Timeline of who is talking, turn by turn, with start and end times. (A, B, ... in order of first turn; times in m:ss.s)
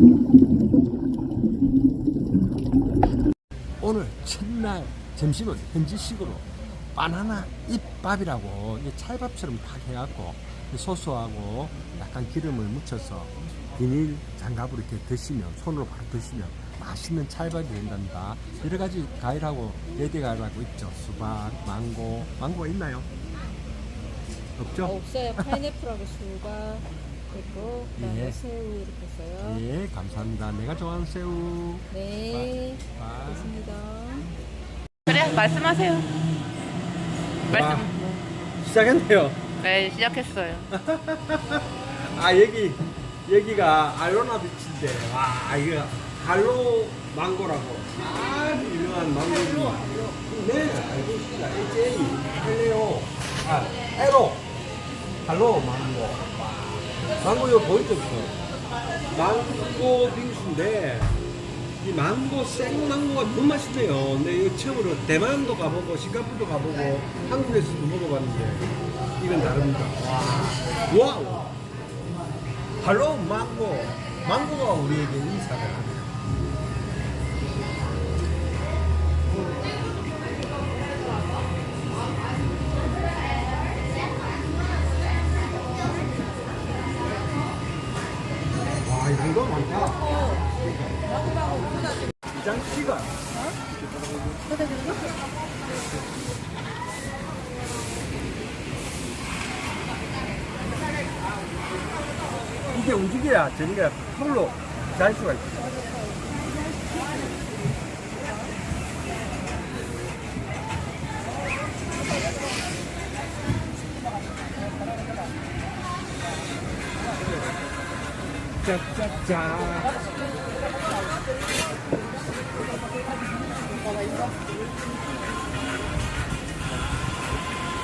0:03.8-0:23.1 A
0:24.6-0:25.6 A
0:24.8-0:29.6 B
0:28.0-0:28.4 A
0:29.4-0:33.5 A
0:31.9-0:34.3 B
0:35.1-0:36.1 C
0:37.5-0:37.9 A
0:37.5-0:38.2 C
0:38.6-0:39.4 A
0:39.6-0:40.7 C
0:40.7-0:54.4 A
0:55.2-0:56.2 A
0:57.2-0:58.3 A
0:59.1-1:01.1 A
1:01.8-1:11.5 A
1:12.8-1:16.1 A
1:28.7-1:31.0 A
1:32.3-1:33.2 A
1:34.5-1:34.9 B
1:42.7-1:45.8 A
1:57.2-1:57.5 A
1:58.6-2:00.2 A